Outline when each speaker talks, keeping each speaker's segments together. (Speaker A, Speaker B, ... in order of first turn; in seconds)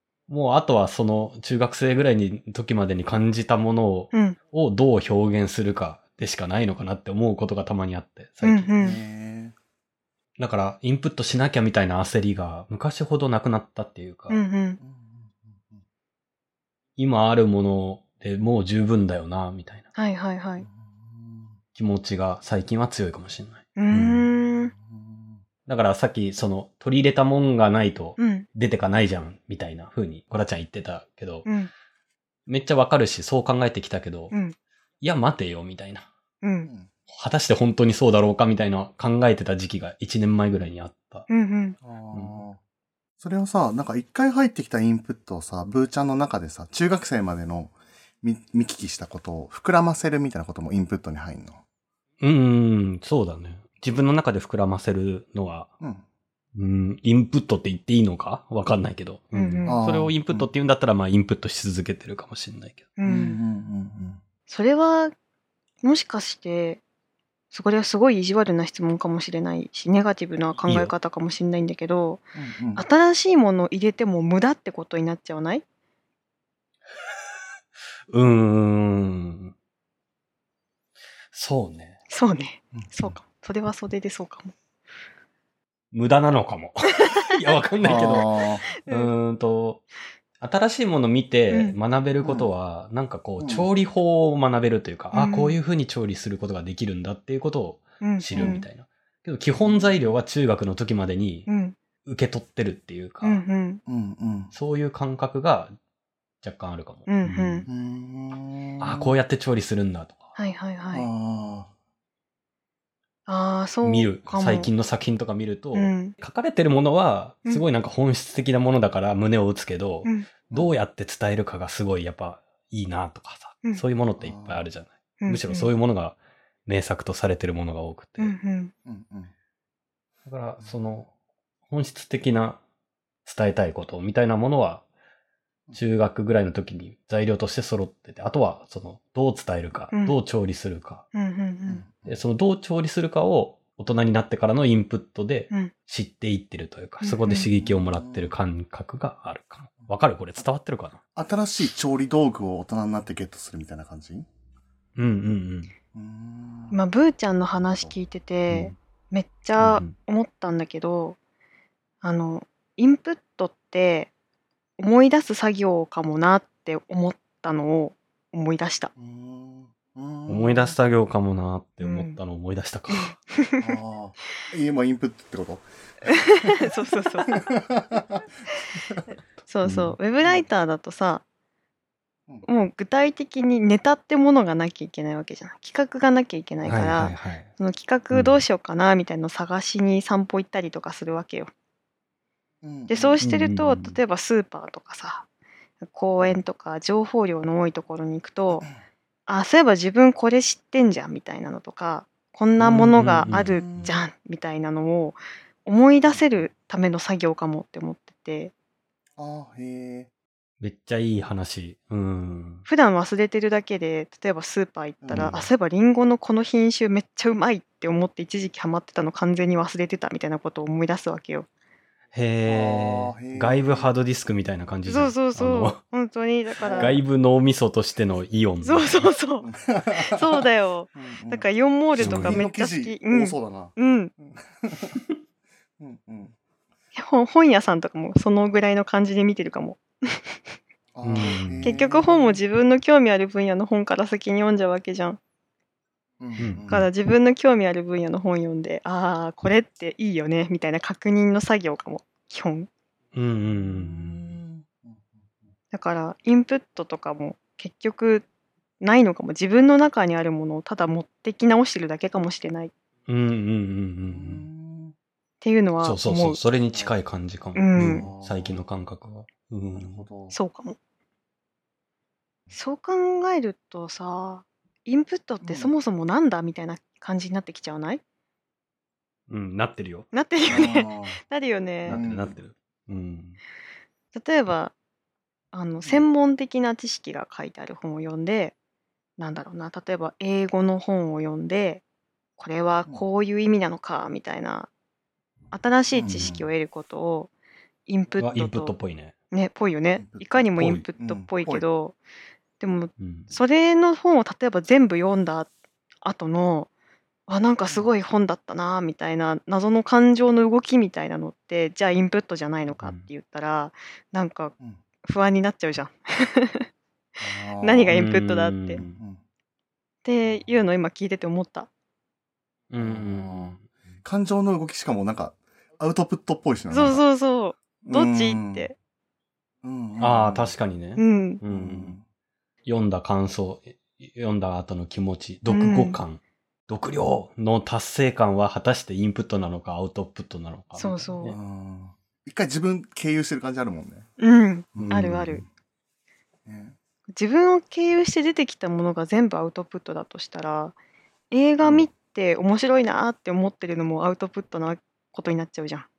Speaker A: 0.3-8.9, 10.4-14.4, 17.0-19.8, 21.8-24.2, 25.7-31.5, 32.5-34.3, 35.0-36.1, 37.1-41.3, 42.1-42.5, 52.2-55.7, 56.6-62.9, 70.6-70.9, 78.1-79.5, 81.3-82.0, 85.9-89.8, 90.4-101.5, 102.0-103.4, 104.5-105.7, 106.4-107.7, 108.8-110.3, 113.8-128.4, 130.3-131.1, 131.7-132.6, 133.2-134.8, 135.7-141.0, 142.0-151.0, 155.0-155.7, 158.5-158.8, 159.6-159.9, 170.3-173.2, 179.6-180.0, 186.6-187.5, 188.1-188.4, 193.2-194.0, 202.6-203.6, 210.6-212.7, 215.1-215.5, 222.1-225.8, 226.7-229.1, 231.9-232.4, 241.0-241.7, 246.4-246.9, 253.1-254.4, 263.1-264.5, 265.8-270.1, 279.3-280.1, 281.8-283.4, 298.2-299.1, 300.6-300.9, 303.0-303.3, 312.8-313.1, 317.9-319.0, 322.7-323.6, 330.0-332.0, 332.7-341.4, 344.8-345.1
Speaker B: 4.1-4.4, 8.4-9.0, 14.3-14.8, 20.0-20.7, 23.8-24.7, 28.2-28.5, 31.4-31.7, 34.3-34.6, 36.4-36.7, 41.3-41.8, 59.3-59.8, 63.0-63.4, 64.5-65.1, 65.8-66.8, 67.5-72.2, 72.8-75.6, 82.1-84.5, 88.8-89.1, 91.5-91.8, 95.1-95.5, 98.0-98.7, 101.5-101.8, 103.2-103.8, 107.1-107.7, 110.4-111.1, 113.3-114.7, 115.8-116.2, 125.2-125.7, 128.2-128.7, 141.1-141.8, 147.0-147.5, 156.7-161.2, 162.0-164.1, 164.8-168.9, 171.8-172.2, 172.9-173.6, 176.1-177.3, 179.5-181.2, 182.4-191.5, 192.9-195.3, 195.8-198.7, 199.3-208.5, 212.7-221.5, 224.9-227.0, 228.6-234.1, 236.9-240.4, 241.6-245.2, 246.7-252.7, 255.7-258.2, 258.8-262.7, 265.4-266.4, 267.6-268.1, 270.3-270.8, 272.5-278.0, 280.1-282.0, 284.1-284.8, 285.5-288.6, 289.2-291.8, 292.4-294.7, 295.5-297.3, 297.9-298.7, 299.3-302.0, 302.6-305.5, 306.0-306.7, 307.3-316.7, 317.6-318.8, 320.1-321.7, 326.7-328.8, 331.0-331.4, 335.5-336.0, 340.8-341.3, 344.2-345.4, 347.1-350.8, 351.3-355.9
Speaker C: 8.8-9.6, 14.8-15.8, 20.6-21.6, 24.5-25.4, 36.6-36.9, 41.8-42.6, 43.2-51.6, 55.8-56.0, 59.7-60.5, 63.0-64.2, 72.3-72.8, 87.8-88.7, 92.2-92.5, 93.4-93.7, 98.3-98.7, 99.6-100.1, 103.9-104.5, 107.7-109.2, 110.9-111.7, 124.2-124.7, 128.9-129.3, 141.7-142.2, 147.5-148.3, 151.2-154.3, 155.9-156.8, 157.6-157.9, 169.0-170.8, 173.6-176.6, 177.3-178.1, 192.6-193.2, 203.3-204.0, 206.0-206.4, 209.2-210.1, 215.0-215.4, 222.4-223.9, 226.6-227.0, 229.4-234.9, 235.8-236.3, 240.9-242.4, 246.2-246.9, 253.6-255.3, 264.1-264.9, 267.8-268.6, 269.8-270.4, 275.4-275.7, 280.5-281.2, 281.9-282.4, 295.9-296.5, 300.0-301.6, 317.2-318.0, 318.7-319.2, 320.2-320.6, 322.8-327.0, 327.8-328.7, 329.6-330.5, 331.5-332.1, 341.2-344.1, 344.8-345.5, 346.5-346.8, 351.6-351.9